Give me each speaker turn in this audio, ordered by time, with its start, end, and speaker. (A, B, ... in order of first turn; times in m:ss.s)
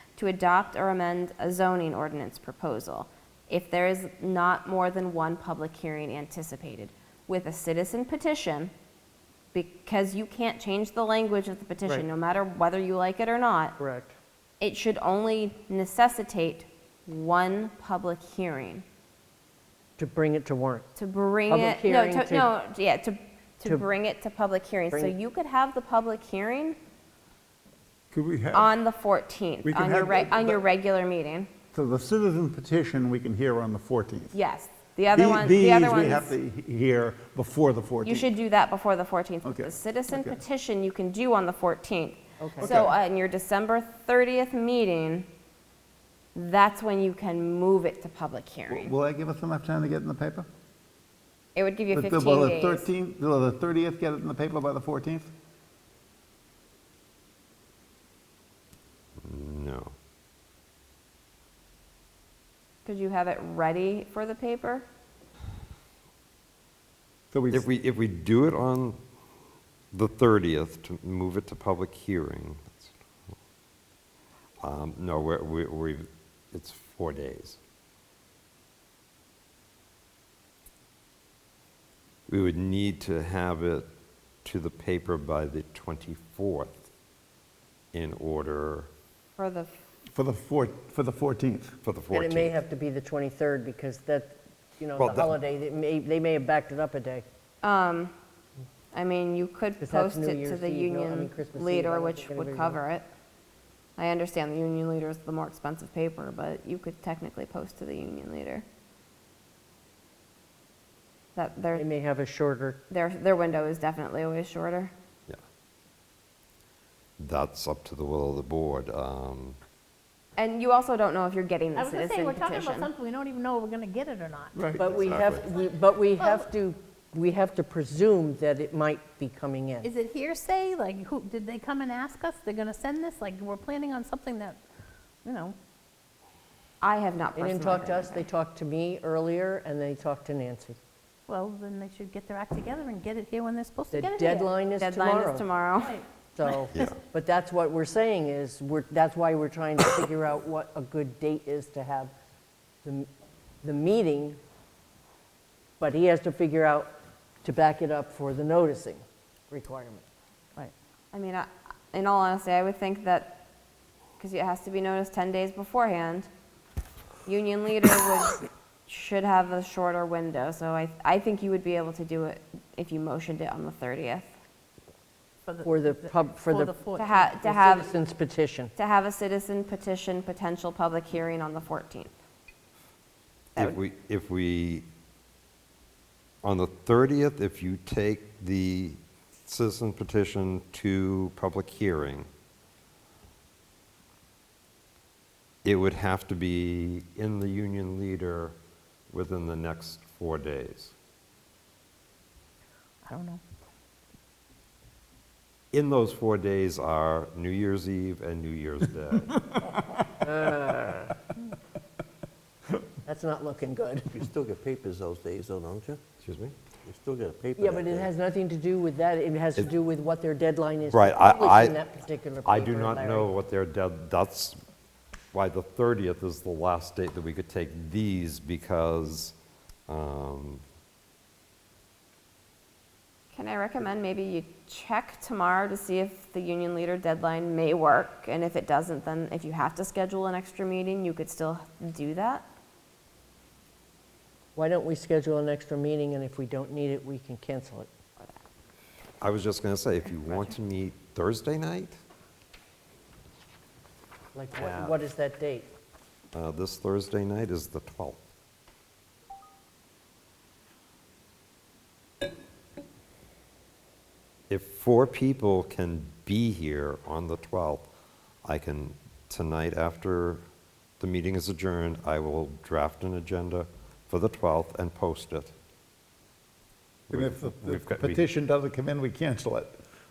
0:00.2-0:08.7 A
0:09.5-0:13.8 A
0:13.8-0:14.2 B
0:14.6-0:18.8 A
0:20.0-0:20.9 B
0:21.0-0:26.8 A
0:21.5-0:22.5 B
0:28.1-0:28.7 C
0:28.5-0:31.5 A
0:29.6-0:30.6 C
0:31.7-0:34.4 C
0:34.3-0:36.3 A
0:35.1-0:38.3 C
0:38.0-0:45.3 A
0:39.4-0:40.4 C
0:42.4-0:42.8 B
0:42.6-0:42.9 C
0:46.3-0:48.9 A
0:48.7-0:50.5 C
0:51.5-0:52.9 A
0:51.9-0:55.3 C
0:59.2-0:59.9 D
1:02.8-1:04.8 A
1:07.3-1:07.7 C
1:07.5-1:09.0 D
1:09.9-1:12.9 D
1:14.6-1:17.6 D
1:22.3-1:23.9 D
1:24.4-1:26.9 D
1:27.9-1:28.9 D
1:29.4-1:29.7 A
1:30.1-1:31.8 C
1:31.8-1:32.5 D
1:32.1-1:37.2 B
1:35.0-1:35.3 D
1:37.6-1:38.1 A
1:38.9-1:43.0 A
1:39.8-1:42.8 B
1:44.0-1:48.6 A
1:51.4-1:51.8 A
1:51.7-1:52.8 B
1:52.9-1:54.9 A
1:57.2-1:59.6 D
2:00.4-2:02.9 A
2:01.7-2:04.6 E
2:04.5-2:04.9 C
2:04.8-2:09.9 B
2:04.8-2:05.4 D
2:06.2-2:06.5 E
2:09.8-2:14.6 E
2:15.2-2:15.6 E
2:16.8-2:18.2 A
2:17.4-2:20.8 B
2:21.3-2:24.5 E
2:23.9-2:25.4 B
2:24.8-2:26.0 A
2:25.8-2:26.6 E
2:26.3-2:32.1 B
2:33.6-2:34.4 B
2:35.8-2:36.9 B
2:37.4-2:40.0 B
2:41.1-2:43.4 A
2:44.2-2:46.3 A
2:47.2-2:54.3 A
2:55.4-2:57.4 E
2:55.6-2:56.7 B
2:57.0-2:57.9 A
2:57.4-2:58.7 B
2:58.8-3:02.1 A
3:03.6-3:04.8 D
3:06.4-3:12.3 D
3:15.6-3:18.5 D
3:19.1-3:20.9 D
3:23.0-3:23.4 E
3:25.7-3:29.4 D
3:30.2-3:31.1 B
3:33.0-3:34.2 B
3:34.2-3:36.0 F
3:36.2-3:36.5 D
3:36.8-3:38.1 F
3:37.6-3:43.3 B
3:40.9-3:41.8 D
3:42.4-3:44.6 D
3:45.3-3:49.3 D
3:49.9-3:50.6 D
3:53.3-4:02.4 A
4:04.6-4:07.9 B
4:09.2-4:12.0 D
4:14.3-4:15.7 B
4:14.6-4:15.0 D
4:16.3-4:18.2 D
4:24.5-4:27.9 D
4:28.4-4:30.4 D
4:31.0-4:35.5 D
4:37.1-4:38.2 D
4:37.1-4:39.8 C